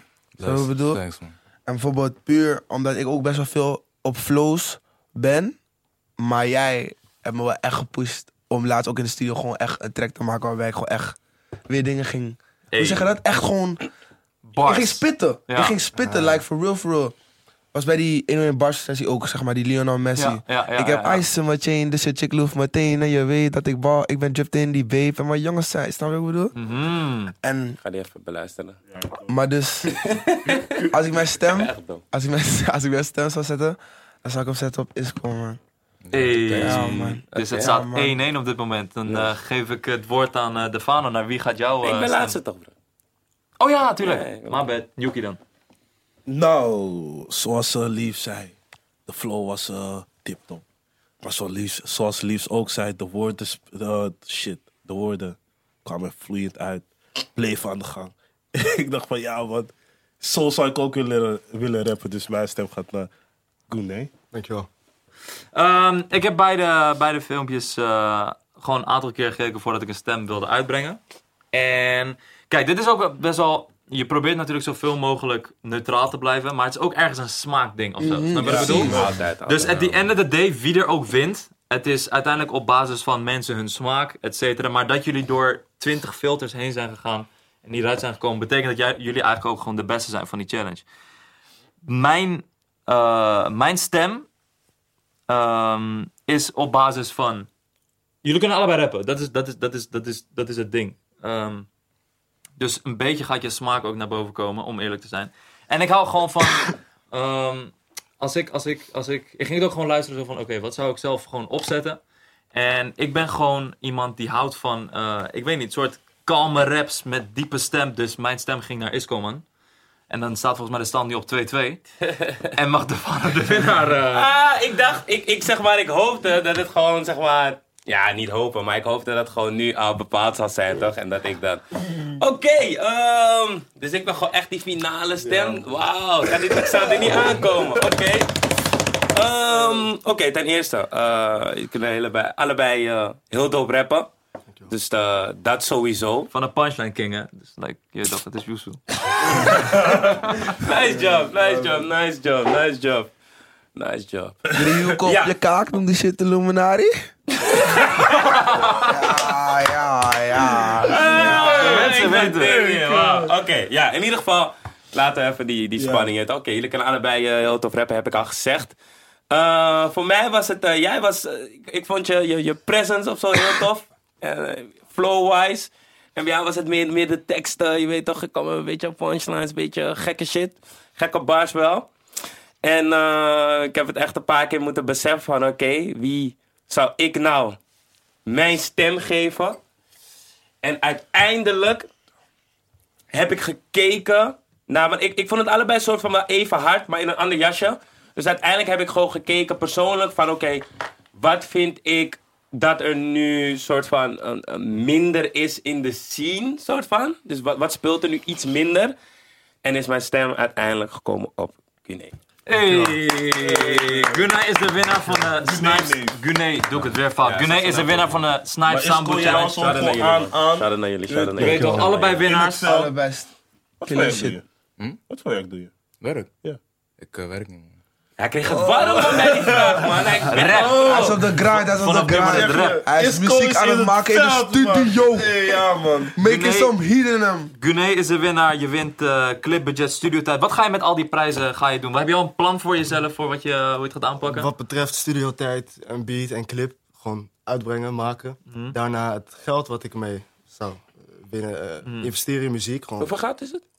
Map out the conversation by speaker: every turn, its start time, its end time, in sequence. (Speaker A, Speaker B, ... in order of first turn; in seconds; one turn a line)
Speaker A: 0.4-1.3
Speaker B: 0.4-1.0
Speaker B: 1.6-5.6
Speaker B: 6.2-11.2
Speaker B: 11.7-13.8
Speaker C: 12.7-13.1
Speaker C: 14.5-15.8
Speaker B: 14.6-17.1
Speaker D: 15.9-16.4
Speaker B: 17.7-26.5
Speaker C: 20.1-21.2
Speaker C: 26.5-27.3
Speaker B: 27.4-27.8
Speaker E: 27.8-28.8
Speaker F: 28.9-29.4
Speaker B: 29.3-30.0
Speaker E: 29.9-30.7
Speaker B: 30.9-35.6
Speaker E: 31.4-32.0
Speaker A: 36.0-37.2
Speaker C: 36.1-42.4
Speaker B: 36.5-38.1
Speaker E: 37.3-37.7
Speaker E: 39.0-39.3
Speaker E: 41.8-42.7
Speaker C: 43.6-45.4
Speaker E: 44.0-44.7
Speaker F: 46.2-48.5
Speaker F: 49.1-50.6
Speaker F: 51.2-63.1
Speaker F: 63.7-64.1
Speaker D: 64.3-64.7
Speaker C: 65.5-71.0
Speaker C: 71.5-90.8
Speaker B: 78.0-78.9
Speaker E: 78.4-80.0
Speaker F: 78.4-79.1
Speaker C: 91.8-94.3
Speaker C: 95.3-97.5
Speaker C: 98.2-101.7
Speaker C: 102.6-112.0
Speaker C: 112.5-119.4
Speaker C: 120.1-121.8
Speaker E: 122.0-122.5
Speaker C: 122.5-124.3
Speaker E: 124.1-138.5
Speaker D: 135.2-135.7
Speaker D: 137.1-137.4
Speaker E: 139.1-144.1
Speaker E: 144.7-146.3
Speaker C: 146.3-149.5
Speaker E: 149.3-153.1
Speaker F: 149.6-150.1
Speaker E: 153.7-154.4
Speaker F: 154.5-154.9
Speaker B: 154.5-156.9
Speaker E: 155.0-155.3
Speaker E: 157.4-158.5
Speaker C: 158.3-158.9
Speaker B: 158.7-161.5
Speaker E: 160.8-168.7
Speaker C: 161.1-162.6
Speaker F: 161.1-163.3
Speaker F: 165.8-166.1
Speaker E: 169.3-181.9
Speaker E: 182.6-187.6
Speaker E: 188.2-189.6
Speaker E: 190.6-191.9
Speaker E: 193.1-208.9
Speaker E: 209.6-212.2
Speaker C: 212.5-219.8
Speaker F: 212.5-214.3
Speaker F: 215.1-216.2
Speaker E: 217.2-218.2
Speaker F: 218.7-222.9
Speaker E: 219.3-222.2
Speaker C: 221.4-222.8
Speaker B: 222.6-223.3
Speaker F: 223.8-224.4
Speaker B: 223.8-224.4
Speaker F: 225.1-225.7
Speaker A: 226.0-226.3
Speaker A: 227.0-227.7
Speaker E: 228.2-231.2
Speaker F: 228.5-236.2
Speaker C: 230.3-232.8
Speaker B: 230.8-235.3
Speaker B: 236.1-237.5
Speaker C: 236.2-236.7
Speaker C: 237.6-244.5
Speaker D: 244.2-253.1
Speaker C: 248.5-248.8
Speaker C: 251.8-252.1
Speaker E: 253.0-253.6